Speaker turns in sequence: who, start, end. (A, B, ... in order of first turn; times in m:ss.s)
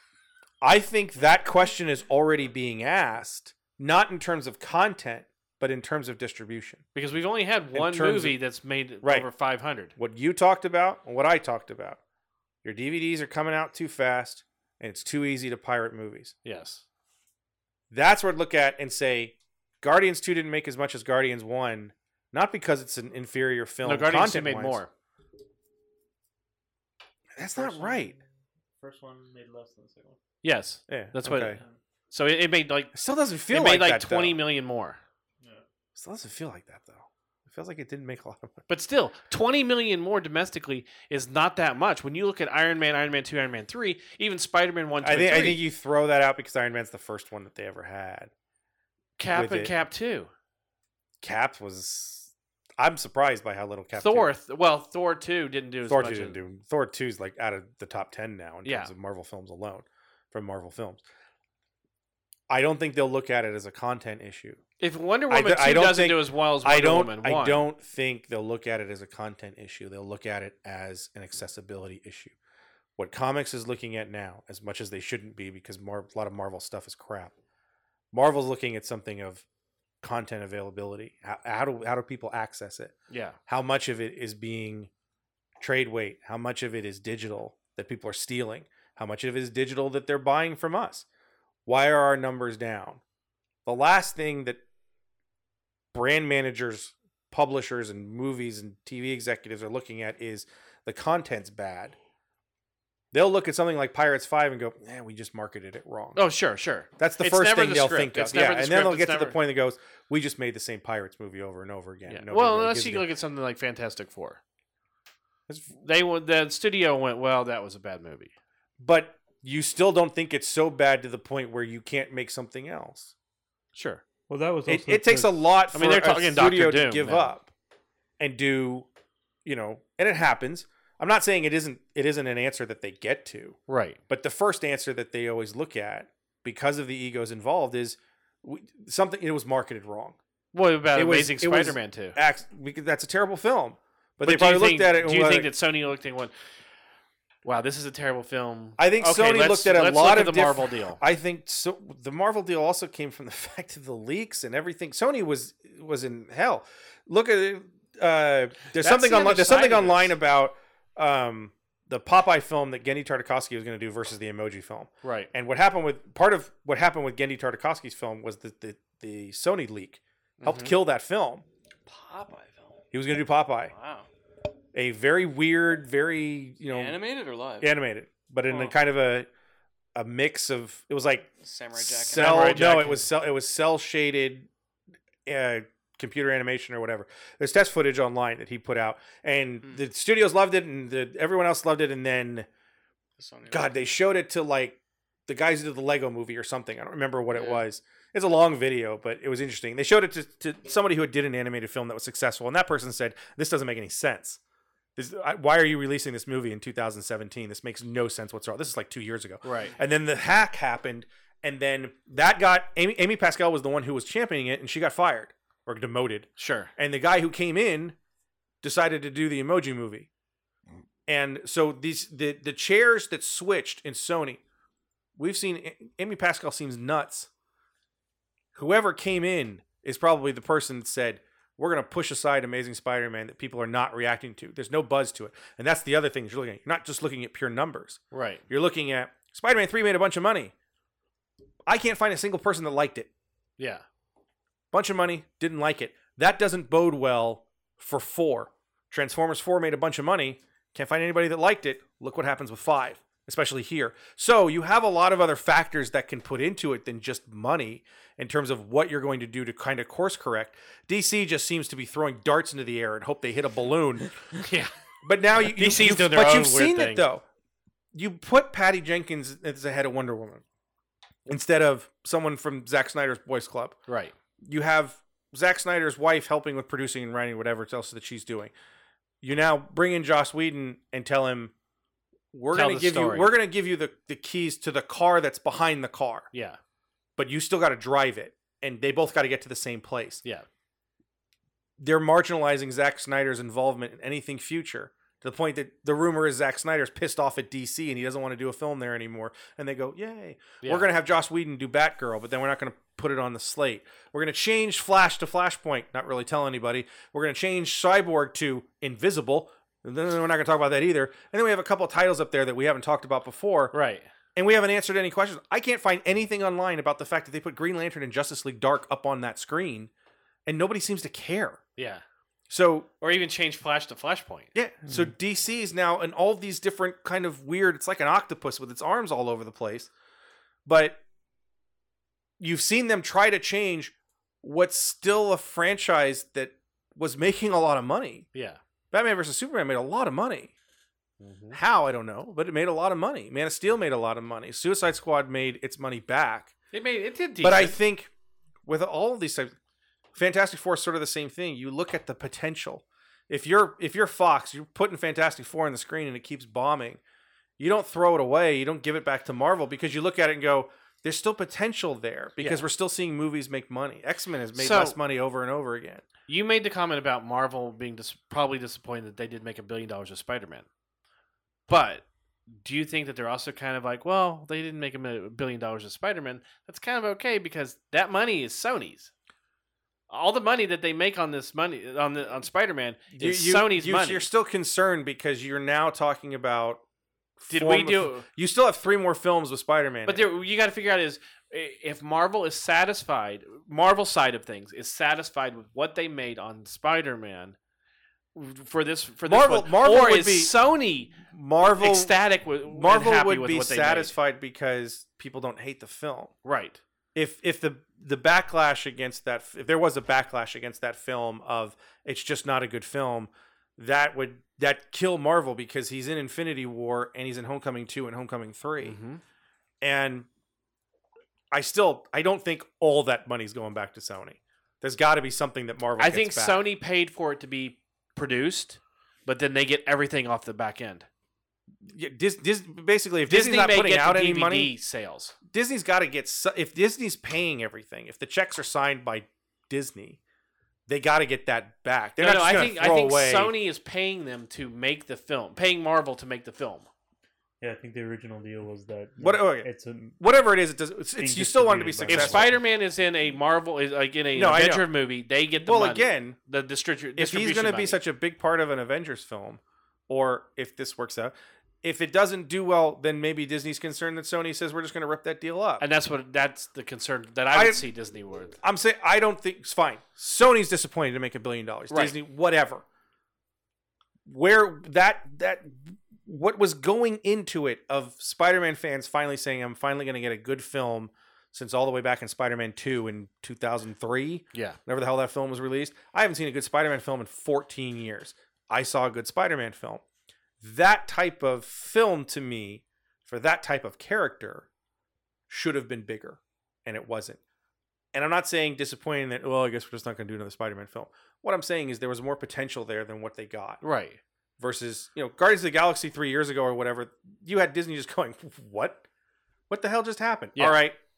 0:00.6-0:06.8 A
0:07.0-0:09.9 B
0:07.7-0:08.4 A
0:09.0-0:09.3 A
0:10.0-0:12.0 A
0:12.6-0:16.3 A
0:16.4-0:16.8 B
0:17.9-0:24.8 A
0:23.8-0:24.9 B
0:27.4-0:28.1 A
0:27.6-0:28.3 C
0:28.8-0:30.2 C
0:30.4-0:31.6 B
0:30.9-0:31.6 A
0:31.5-0:31.8 C
0:32.1-0:32.9 B
0:32.9-0:34.4 A
0:33.5-0:35.0 B
0:36.0-0:38.6 A
0:38.7-0:45.6 B
0:45.0-0:48.3 A
0:49.2-0:50.3 B
0:49.3-0:49.7 A
0:51.2-0:54.3 A
0:54.0-0:56.4 B
0:55.9-1:01.0 A
0:58.6-0:58.9 B
1:02.5-1:04.6 A
1:04.8-1:07.7 B
1:05.3-1:12.4 A
1:13.0-1:17.3 A
1:18.1-1:19.4 A
1:20.0-1:23.0 A
1:23.1-1:23.4 B
1:23.5-1:24.9 A
1:25.6-1:31.1 A
1:31.7-1:33.0 A
1:33.6-1:34.6 A
1:35.9-1:42.0 A
1:43.1-1:46.2 A
1:46.2-1:49.4 B
1:47.0-1:53.1 A
1:52.1-1:54.4 B
1:55.5-1:55.8 A
1:55.8-1:58.3 B
1:58.8-2:03.1 A
2:03.8-2:04.0 B
2:04.3-2:05.4 C
2:04.7-2:07.5 A
2:05.7-2:07.3 B
2:08.2-2:08.9 A
2:09.4-2:13.6 A
2:13.7-2:14.0 B
2:14.1-2:20.2 A
2:20.5-2:22.2 B
2:21.0-2:25.5 A
2:24.2-2:26.3 B
2:27.4-2:31.0 B
2:28.8-2:51.4 A
2:38.7-2:40.1 B
2:45.0-2:45.3 B
2:50.4-2:50.7 B
2:51.9-2:52.8 D
2:52.9-2:53.7 A
2:53.7-2:54.1 D
2:54.7-2:57.0 A
2:56.7-2:57.8 D
2:57.6-2:59.3 A
2:58.5-2:58.7 D
3:00.0-3:04.5 A
3:01.4-3:02.8 D
3:02.1-3:03.1 B
3:05.3-3:12.5 A
3:13.2-3:14.0 D
3:13.5-3:24.4 A
3:17.3-3:17.6 D
3:25.0-3:38.0 A
3:29.4-3:29.7 B
3:36.4-3:36.7 B
3:38.6-3:40.1 A
3:41.1-3:44.4 A
3:45.2-3:47.3 A
3:48.6-4:00.5 A
3:58.1-3:58.4 B
4:01.7-4:03.1 A
4:03.6-4:03.8 B
4:04.7-4:24.3 A
4:24.4-4:24.7 B
4:25.0-4:27.2 A
4:25.4-4:27.1 B
4:27.9-4:30.4 A
4:31.3-4:33.8 A
4:33.9-4:34.1 B
4:34.4-4:38.5 A
4:39.2-4:41.5 A
4:42.3-4:46.3 A
4:42.5-4:43.3 B
4:46.3-4:46.6 B
4:47.2-4:50.2 A
4:51.8-5:13.7 A
5:00.6-5:00.9 B
5:13.7-5:14.1 B
5:14.4-5:19.9 A
5:20.5-5:21.6 A
5:21.8-5:22.0 B
5:22.5-5:22.9 A
5:23.0-5:24.5 B
5:24.5-5:29.9 A
5:30.7-5:31.0 A
5:32.4-5:38.3 A
5:38.3-5:38.6 B
5:38.9-5:40.5 A
5:41.2-5:41.6 B
5:41.5-5:46.5 A
5:46.7-5:47.8 B
5:47.4-5:48.1 A
5:48.6-5:49.5 A
5:50.2-5:57.0 A
5:57.6-6:06.0 A
6:02.4-6:02.7 B
6:04.6-6:05.0 B
6:06.3-6:10.7 B
6:11.7-6:19.1 B
6:20.1-6:24.3 B
6:23.1-6:26.8 A
6:27.4-6:30.3 A
6:27.5-6:28.2 B
6:30.1-6:37.6 B
6:38.4-6:44.1 B
6:39.2-6:40.6 A
6:41.2-6:46.3 A
6:46.4-6:46.8 B
6:47.2-6:59.0 A
6:58.8-6:59.2 B
6:59.8-7:00.3 A
7:01.5-7:06.6 A
7:06.0-7:11.1 B
7:11.8-7:14.7 A
7:13.3-7:15.4 B
7:15.5-7:20.2 A
7:20.9-7:23.6 A
7:22.2-7:26.9 B
7:27.6-7:30.2 C
7:29.2-7:32.5 A
7:31.2-7:32.6 C
7:32.1-7:38.0 B
7:34.4-7:34.9 A
7:35.6-7:36.4 A
7:37.2-7:45.9 A
7:45.8-7:48.6 B
7:47.5-7:47.9 A
7:48.6-7:52.8 A
7:51.9-7:52.2 B
7:54.3-8:10.0 A
8:10.6-8:14.7 A
8:15.5-8:17.4 A
8:18.1-8:23.8 A
8:23.8-8:24.2 B
8:24.6-8:29.0 A
8:29.7-8:31.0 A